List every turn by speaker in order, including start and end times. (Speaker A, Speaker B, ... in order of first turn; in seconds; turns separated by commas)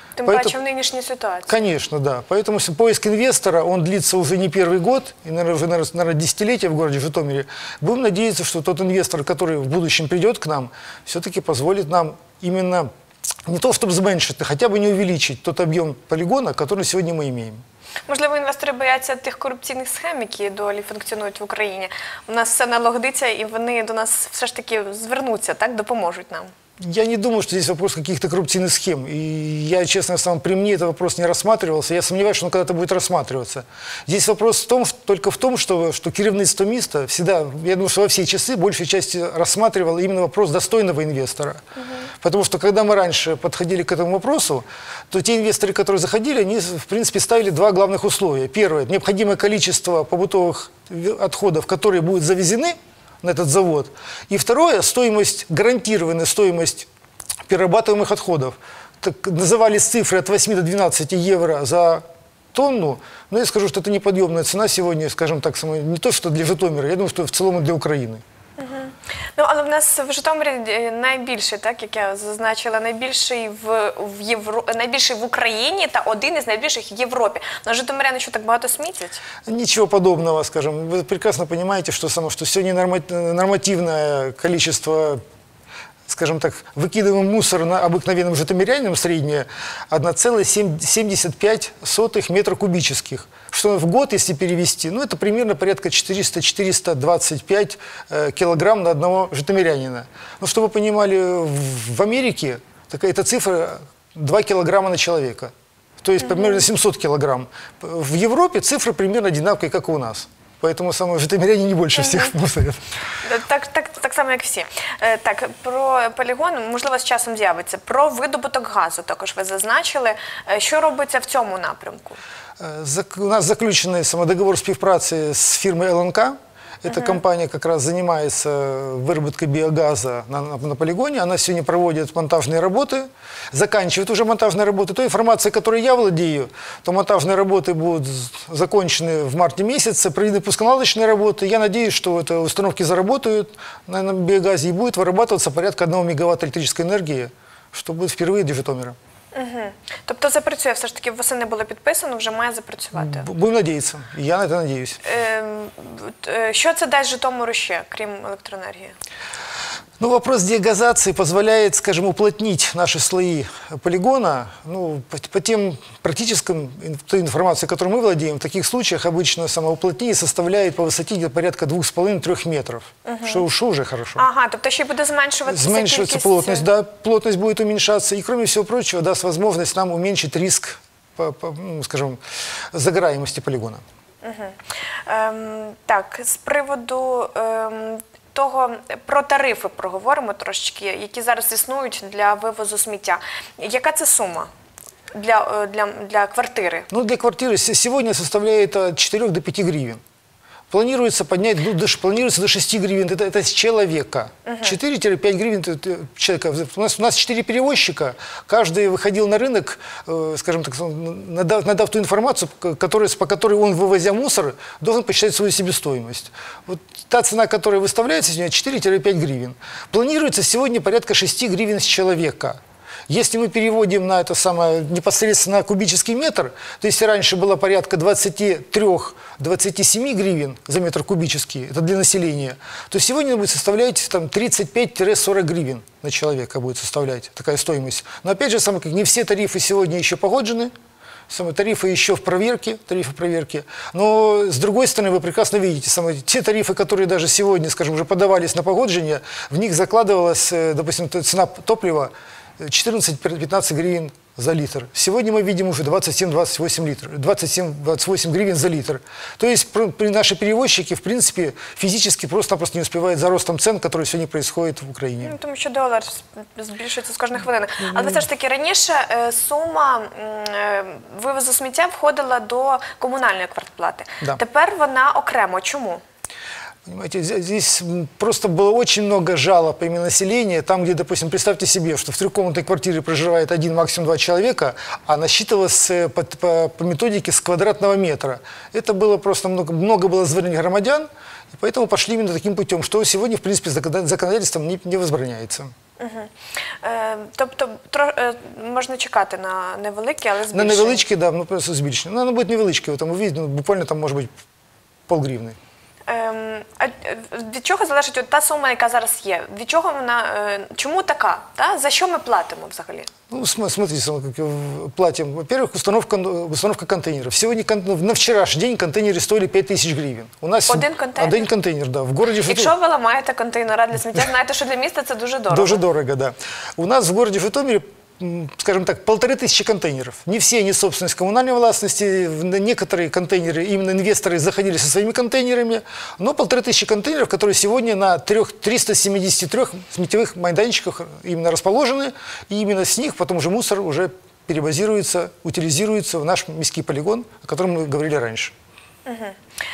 Speaker A: 0.2-1.6, Speaker B: 0.2-0.5, Speaker B: 1.5-12.9, Speaker B: 13.4-17.6, Speaker A: 18.1-26.5, Speaker B: 26.8-41.6, Speaker A: 41.8-42.1, Speaker B: 42.1-56.9, Speaker B: 57.5-68.2, Speaker A: 68.6-79.2, Speaker B: 79.5-85.2, Speaker B: 86.1-112.8, Speaker A: 106.2-106.6, Speaker A: 112.0-112.3, Speaker A: 113.2-122.2, Speaker B: 122.6-148.9, Speaker A: 126.9-127.2, Speaker A: 149.3-153.3, Speaker B: 152.9-155.0, Speaker A: 155.0-158.9, Speaker B: 160.0-174.2, Speaker A: 173.0-173.4, Speaker A: 174.2-176.6, Speaker B: 175.5-182.2, Speaker B: 182.7-183.8, Speaker A: 184.2-194.5, Speaker A: 195.1-196.9, Speaker B: 196.9-200.0, Speaker B: 200.7-240.7, Speaker A: 204.4-204.7, Speaker B: 241.3-265.3, Speaker A: 265.2-276.0, Speaker B: 267.9-268.2, Speaker B: 276.9-295.7, Speaker A: 296.0-301.0, Speaker B: 300.5-304.3, Speaker B: 305.1-305.6, Speaker A: 306.1-313.1, Speaker B: 313.3-322.7, Speaker A: 320.7-321.4, Speaker A: 322.4-325.8, Speaker B: 325.5-348.5, Speaker A: 349.1-349.4